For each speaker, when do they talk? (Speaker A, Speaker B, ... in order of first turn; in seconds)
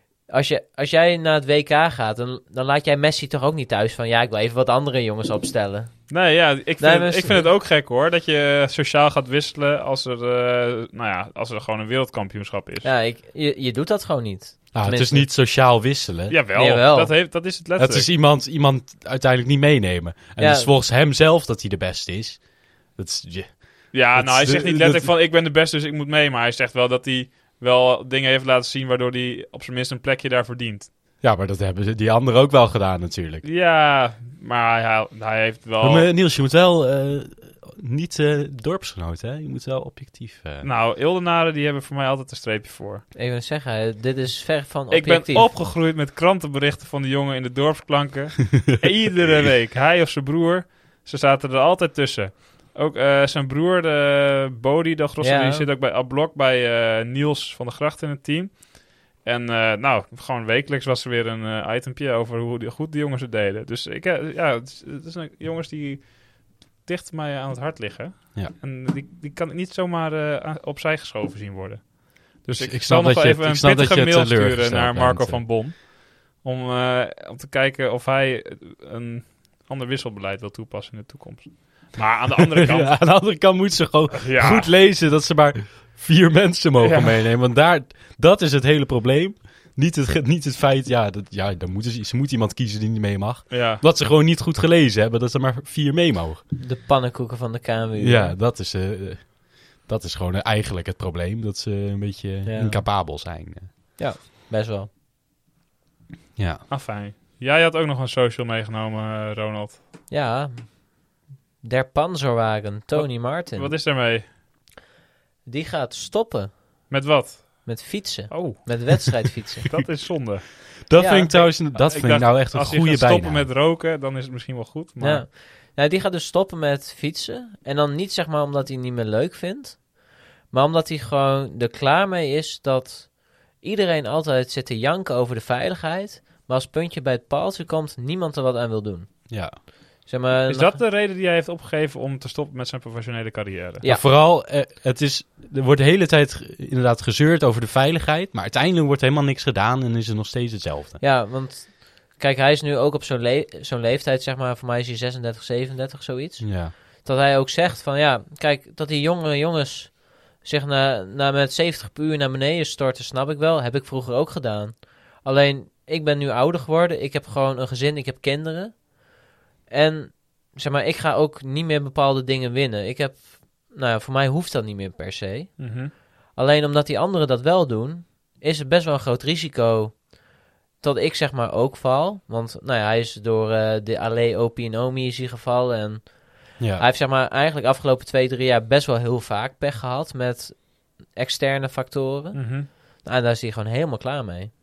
Speaker A: 0.3-6.3, 6.8-7.5, 12.8-15.3, 16.5-17.1, 20.4-20.7, 43.1-45.5, 55.2-55.7, 96.6-98.4, 102.4-102.8, 104.0-104.9, 110.1-113.8, 115.5-116.9, 117.6-119.8, 121.0-121.5, 125.0-139.4, 140.0-140.8, 143.8-144.1, 151.0-169.1, 169.7-180.2, 180.8-194.5
Speaker B: 6.1-12.9, 16.3-18.1, 23.9-30.9, 33.4-36.1, 40.6-43.0, 44.9-83.2, 84.2-84.7, 86.8-87.1, 93.5-93.8, 106.7-109.8, 112.9-114.3, 116.9-119.2, 119.7-120.7, 121.3-125.2, 140.5-143.8, 175.6-175.9, 192.3-192.7
Speaker C: 14.7-16.4, 17.8-25.1, 31.2-33.4, 35.8-40.7, 72.5-75.5, 82.5-96.4, 98.0-103.7, 106.3-106.7, 120.8-123.5, 139.3-139.6, 143.8-151.0, 156.4-156.7, 186.6-186.8